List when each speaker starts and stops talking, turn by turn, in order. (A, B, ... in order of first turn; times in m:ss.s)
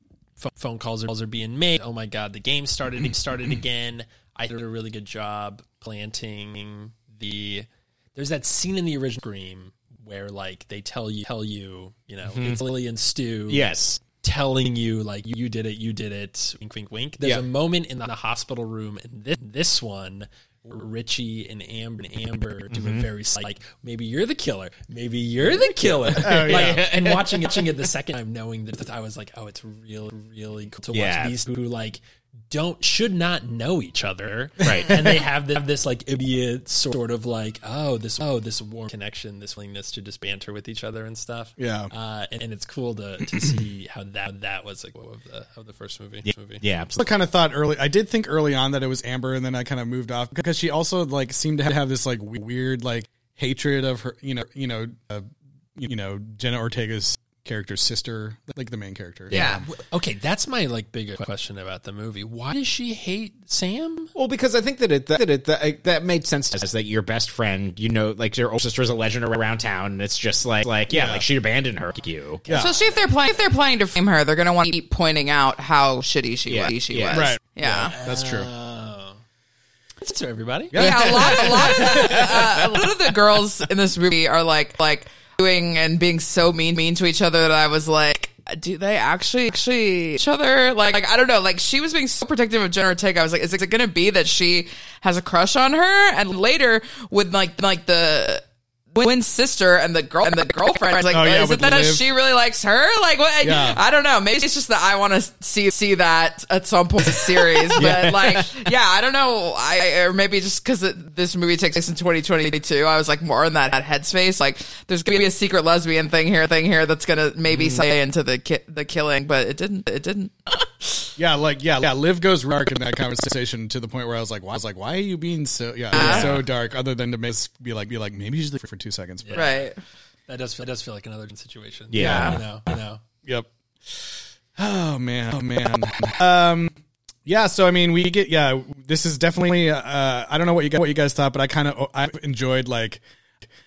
0:00.4-0:46.6 A
0:12.3-0:12.6 B
0:13.5-0:14.0 B
0:17.2-0:17.4 B
0:22.7-0:23.1 B
0:26.2-0:26.9 C
0:26.2-0:27.5 B
0:30.9-0:31.4 B
0:34.6-0:35.2 B
0:41.6-0:41.9 C
0:46.2-0:47.1 B
0:46.9-0:59.6 C
0:59.3-0:59.6 B
0:59.3-0:59.6 D
0:59.4-1:04.1 A
1:04.2-1:12.6 B
1:10.9-1:11.2 C
1:12.5-1:12.8 C
1:12.5-1:18.0 D
1:16.5-1:17.3 B
1:17.1-1:18.5 C
1:17.9-1:19.2 A
1:20.0-1:21.0 A
1:20.7-1:21.5 C
1:20.7-2:01.1 D
1:20.7-1:22.8 B
1:41.1-1:42.1 C
1:43.4-1:43.8 C
1:47.7-1:48.5 B
1:57.5-1:57.8 B
2:01.2-2:09.6 C
2:05.9-2:06.4 D
2:06.0-2:06.3 B
2:06.0-2:06.3 A
2:09.2-2:09.6 A
2:09.3-2:09.8 D
2:10.3-2:13.0 A
2:11.9-2:12.4 B
2:12.0-2:12.4 C
2:13.2-2:16.7 C
2:17.3-2:23.0 C